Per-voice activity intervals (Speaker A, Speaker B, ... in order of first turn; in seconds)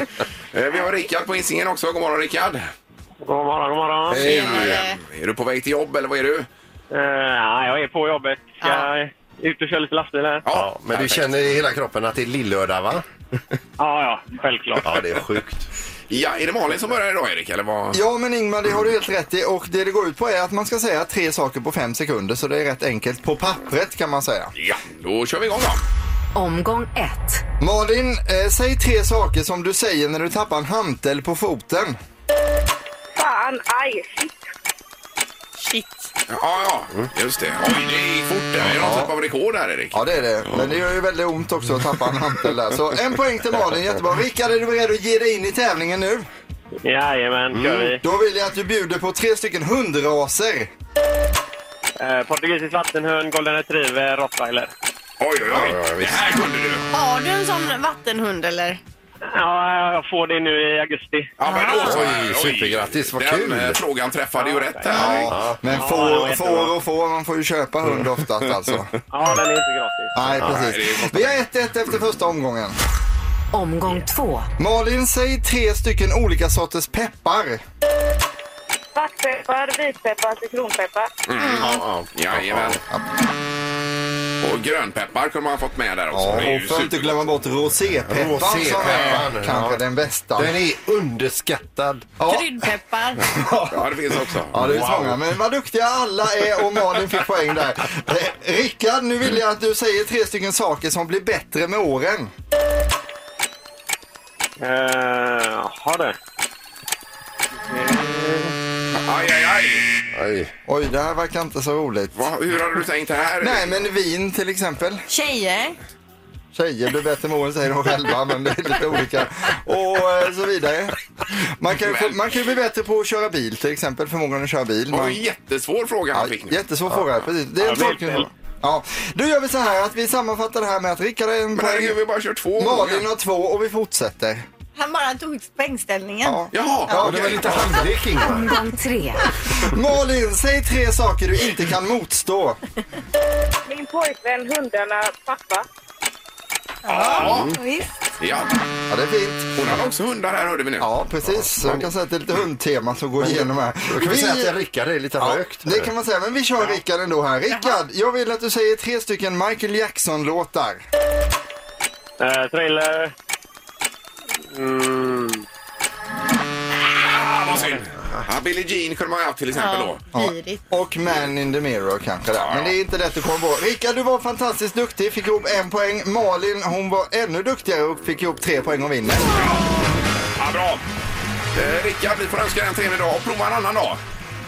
Speaker A: 0.5-2.7, 4.1-6.5, 10.4-11.3, 16.1-18.0, 24.6-25.8, 36.3-40.0, 55.2-56.9, 61.4-65.3, 70.4-71.4, 81.3-82.8, 84.4-87.2, 93.7-94.9, 108.9-109.9, 112.2-113.8, 121.8-122.2, 124.9-126.6, 131.6-133.1, 136.5-137.7, 146.9-147.6, 148.2-148.6, 149.6-150.9, 166.8-170.0, 172.3-172.7, 179.3-179.7, 180.4-180.8, 181.5-184.0
Speaker B: 3.2-4.4, 6.9-10.4, 13.8-15.0, 46.8-48.0, 52.0-54.7, 59.3-61.3, 64.4-66.7, 69.1-70.1, 104.6-106.2, 107.7-108.5, 127.6-128.3, 162.2-163.1, 164.5-165.4
Speaker C: 4.1-4.8, 10.5-13.1, 14.8-15.7, 38.6-39.1, 47.5-48.0, 55.5-56.3, 61.7-63.8, 64.9-65.6, 70.4-70.7, 81.6-82.8, 88.1-89.8, 90.4-92.1, 110.1-110.5, 136.9-138.6, 147.2-147.6, 151.2-151.9, 153.2-155.9
Speaker D: 4.2-5.0, 8.6-8.9, 35.6-36.1, 56.9-58.8, 61.5-62.0, 81.4-81.8, 92.3-93.2, 115.1-115.8, 134.8-136.4, 146.8-147.9, 157.5-157.8, 169.5-170.6
Speaker E: 17.9-24.5, 27.6-32.0, 39.9-46.3, 48.0-50.7, 64.9-68.9, 70.1-72.8, 74.6-77.6, 86.1-90.6, 92.2-92.5, 93.2-102.3, 110.7-112.3, 113.4-115.1, 116.5-125.2, 126.1-132.0, 132.6-134.4, 136.2-137.9, 139.5-142.6, 148.9-149.8, 150.8-154.5, 155.2-160.8, 170.1-179.5
Speaker F: 26.4-27.4, 73.5-74.5, 138.3-139.2
Speaker G: 33.1-34.4, 79.0-81.1, 143.7-145.7